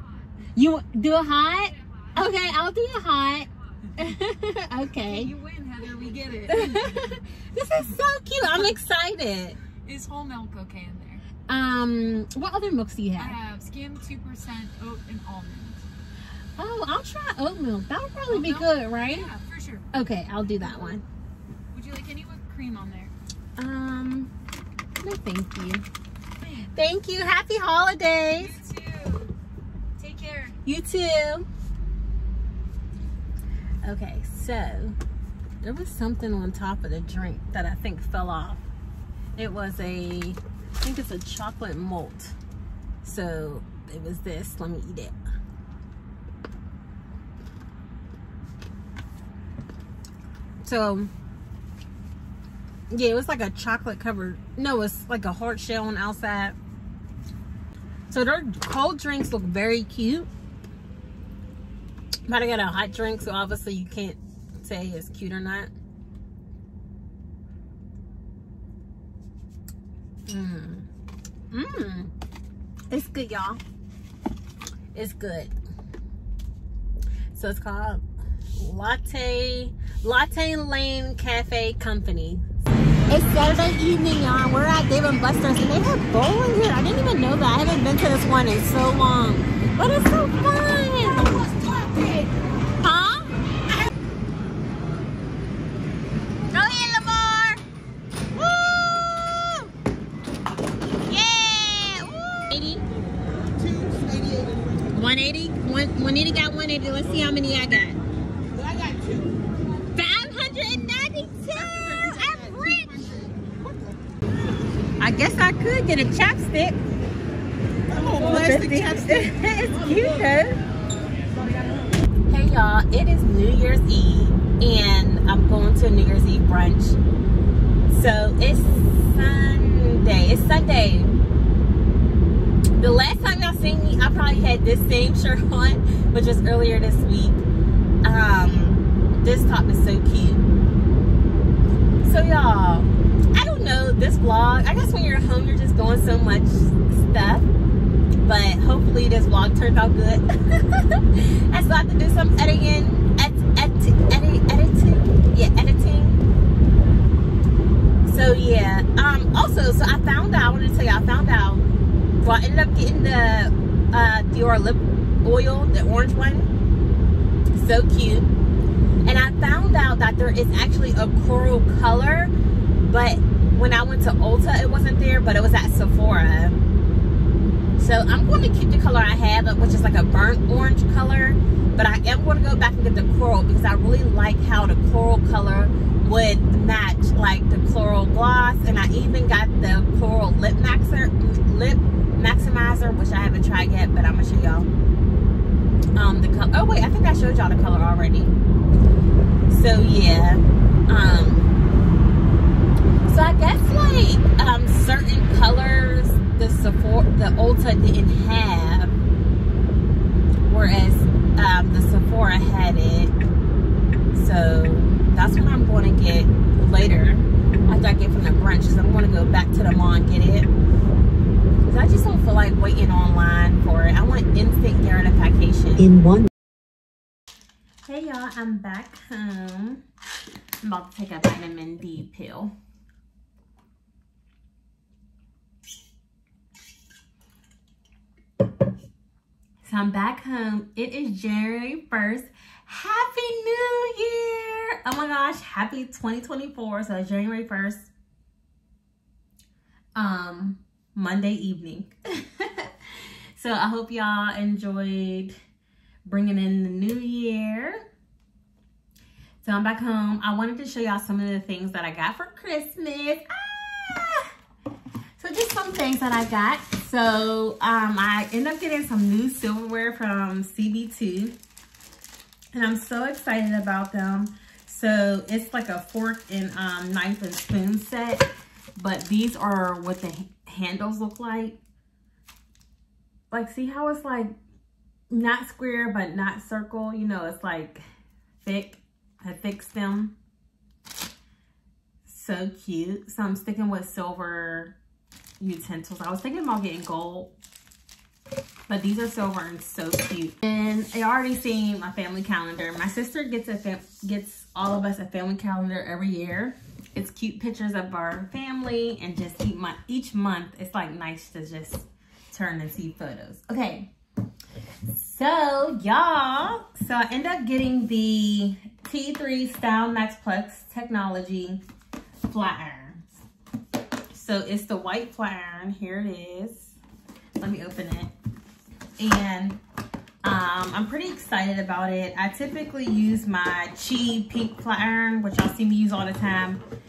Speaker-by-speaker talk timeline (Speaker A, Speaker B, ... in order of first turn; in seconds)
Speaker A: 0.5-5.3, 6.5-9.6, 11.5-13.4, 16.6-19.3, 19.9-21.0, 23.6-24.3, 25.0-25.9, 26.7-28.6, 30.6-31.5, 33.8-35.0, 35.6-38.6, 39.4-42.4, 43.0-45.1, 50.6-51.1, 52.9-56.6, 58.1-60.3, 62.3-65.7, 70.3-70.9, 71.5-72.1, 72.9-73.6, 74.9-75.5, 77.3-78.0, 78.6-82.4, 83.1-91.4, 92.8-93.3, 96.5-97.6, 98.7-99.7, 101.0-102.8, 104.9-108.0, 109.9-113.1, 115.0-116.8, 118.1-120.6, 122.3-127.0, 127.9-131.2, 132.7-137.4, 138.0-140.5, 142.0-147.5, 148.2-156.2, 158.1-161.6, 162.2-166.5, 167.5-168.3, 169.0-172.3, 172.8-176.6, 177.8-194.7, 195.9-198.3, 199.5-201.5, 203.1-209.0, 210.4-213.1, 214.1-220.5, 221.6-226.2, 227.8-229.8, 230.6-232.5, 239.6-247.9, 249.9-255.3, 256.1-257.8, 259.4-264.3, 265.2-271.4, 272.5-281.6, 283.3-284.4, 285.1-287.8, 288.4-290.1, 292.1-294.8, 295.4-297.3, 298.7-313.9, 314.9-321.6, 322.2-323.2, 324.1-326.8, 327.4-328.1, 329.0-329.6, 330.2-336.6
Speaker B: 5.0-7.2, 8.4-8.7, 9.8-11.2, 13.2-15.8, 18.3-19.9, 20.6-21.0, 21.7-23.1, 26.4-26.7, 28.4-29.4, 30.0-30.6
Speaker C: 91.2-92.4, 103.5-105.0, 108.5-109.4, 111.6-114.3, 117.9-119.3